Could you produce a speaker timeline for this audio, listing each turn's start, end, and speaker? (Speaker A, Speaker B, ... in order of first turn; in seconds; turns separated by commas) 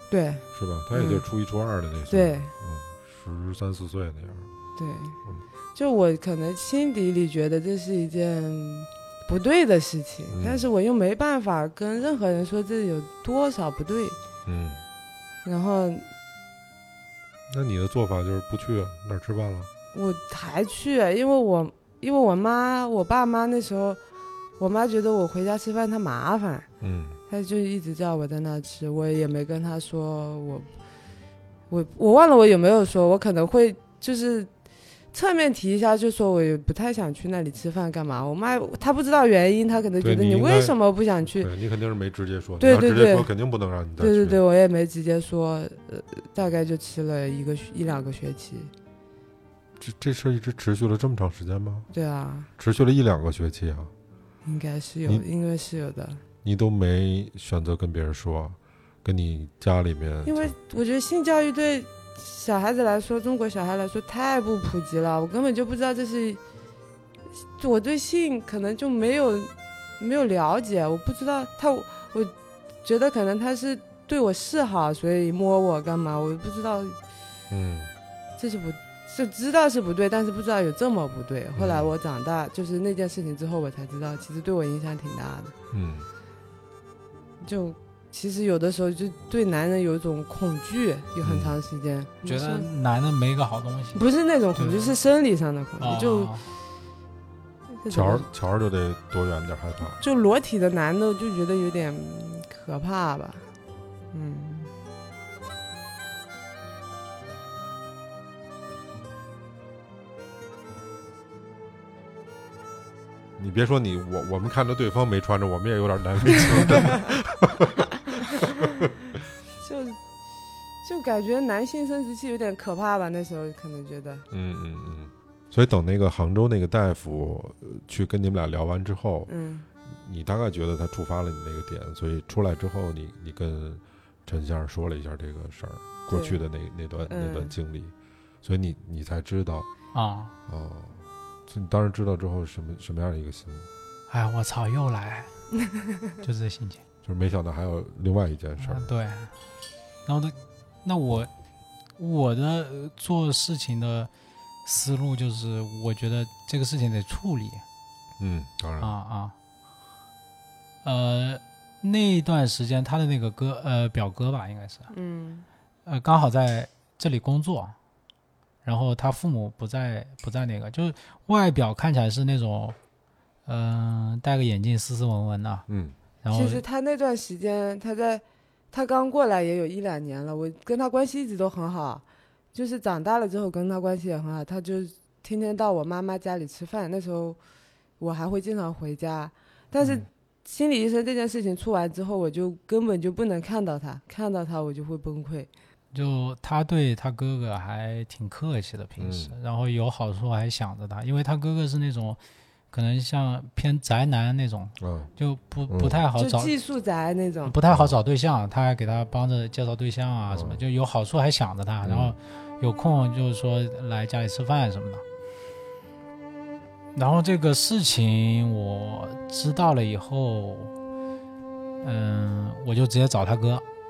Speaker A: 0.1-1.2, Speaker B: 0.5-4.5, Speaker A: 2.1-2.5, Speaker A: 4.8-5.2, Speaker A: 5.8-14.2, Speaker B: 10.3-10.7, Speaker B: 14.5-14.8, Speaker A: 15.4-16.1, Speaker B: 17.5-19.7, Speaker A: 19.9-24.0, Speaker A: 24.6-26.7, Speaker B: 26.8-27.2, Speaker A: 27.3-30.7, Speaker A: 31.7-34.5, Speaker A: 35.1-41.5, Speaker B: 40.0-40.8, Speaker B: 41.4-44.4, Speaker A: 42.6-43.3, Speaker A: 44.0-48.7, Speaker B: 49.8-51.9, Speaker A: 51.9-52.5, Speaker B: 52.6-53.9, Speaker A: 54.5-56.2, Speaker B: 56.4-60.5, Speaker A: 60.2-66.4, Speaker A: 67.6-77.0, Speaker B: 77.5-77.9, Speaker A: 78.4-85.5, Speaker B: 81.5-81.9, Speaker B: 85.7-86.1, Speaker A: 87.4-92.7, Speaker B: 91.2-91.6, Speaker C: 92.2-95.0, Speaker A: 94.0-96.3, Speaker C: 95.8-96.5, Speaker A: 97.8-98.3, Speaker B: 97.9-100.0, Speaker A: 100.0-103.5, Speaker A: 104.1-104.7, Speaker B: 113.4-118.5, Speaker A: 118.3-118.7, Speaker A: 119.6-120.0, Speaker A: 120.8-124.2, Speaker B: 124.3-129.3, Speaker A: 129.3-129.7, Speaker B: 129.9-139.7, Speaker A: 136.1-136.4, Speaker A: 137.1-137.6, Speaker C: 139.9-140.3, Speaker B: 140.5-143.7, Speaker C: 144.1-145.3, Speaker C: 146.2-146.8, Speaker B: 147.0-148.9, Speaker C: 148.6-149.3, Speaker C: 150.1-151.3, Speaker C: 152.0-154.1, Speaker C: 154.7-157.6, Speaker B: 158.2-158.9, Speaker C: 158.8-159.3, Speaker C: 160.8-164.9, Speaker A: 164.9-165.5, Speaker C: 165.9-167.8, Speaker C: 168.6-172.8, Speaker C: 173.5-175.7, Speaker B: 175.7-176.0, Speaker C: 176.2-176.6, Speaker A: 176.3-187.4, Speaker A: 188.0-195.5, Speaker C: 195.9-202.2, Speaker B: 199.0-199.3, Speaker C: 202.7-206.5, Speaker B: 204.8-205.1, Speaker B: 205.7-206.0, Speaker A: 206.2-207.5, Speaker C: 207.5-215.0, Speaker B: 207.7-208.0, Speaker B: 210.3-210.6, Speaker B: 211.8-212.2, Speaker C: 216.9-220.7, Speaker C: 221.8-223.6